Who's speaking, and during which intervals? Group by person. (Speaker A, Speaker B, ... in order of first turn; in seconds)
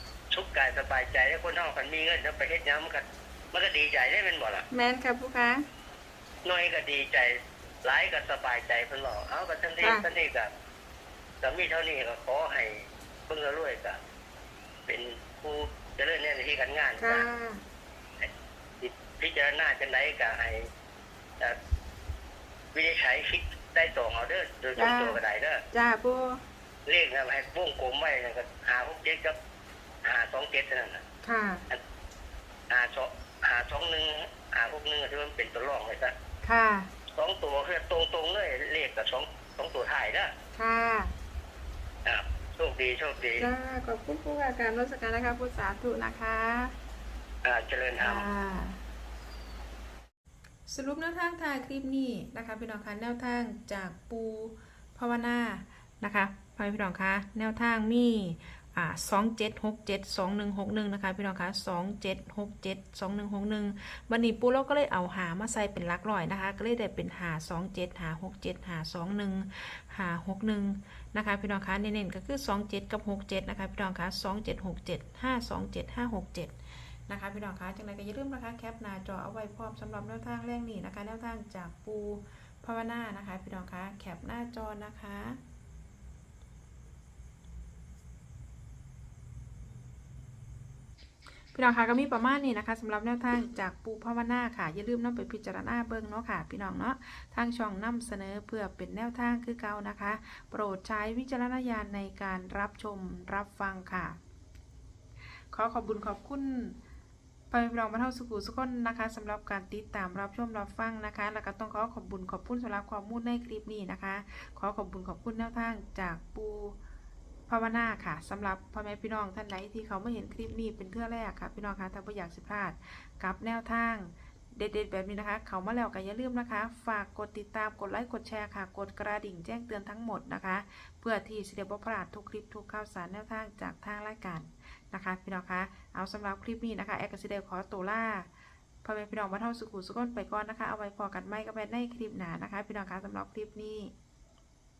Speaker A: 0.3-4.7, 6.5-10.5, 11.4-14.0, 14.9-17.3, 18.8-20.7, 22.7-25.6, 26.9-29.4, 30.1-31.0, 32.7-36.1, 37.1-40.3, 42.1-43.5, 47.4-48.3
Speaker B: 4.7-5.6, 9.8-10.1, 17.0-17.6, 24.8-25.2, 25.7-26.4, 31.2-31.6, 36.5-36.9, 40.6-41.1, 43.4-46.8, 48.0-48.8, 50.7-76.6, 77.1-85.4, 91.5-104.2, 105.5-106.8, 107.5-116.8, 117.5-138.3, 138.8-143.9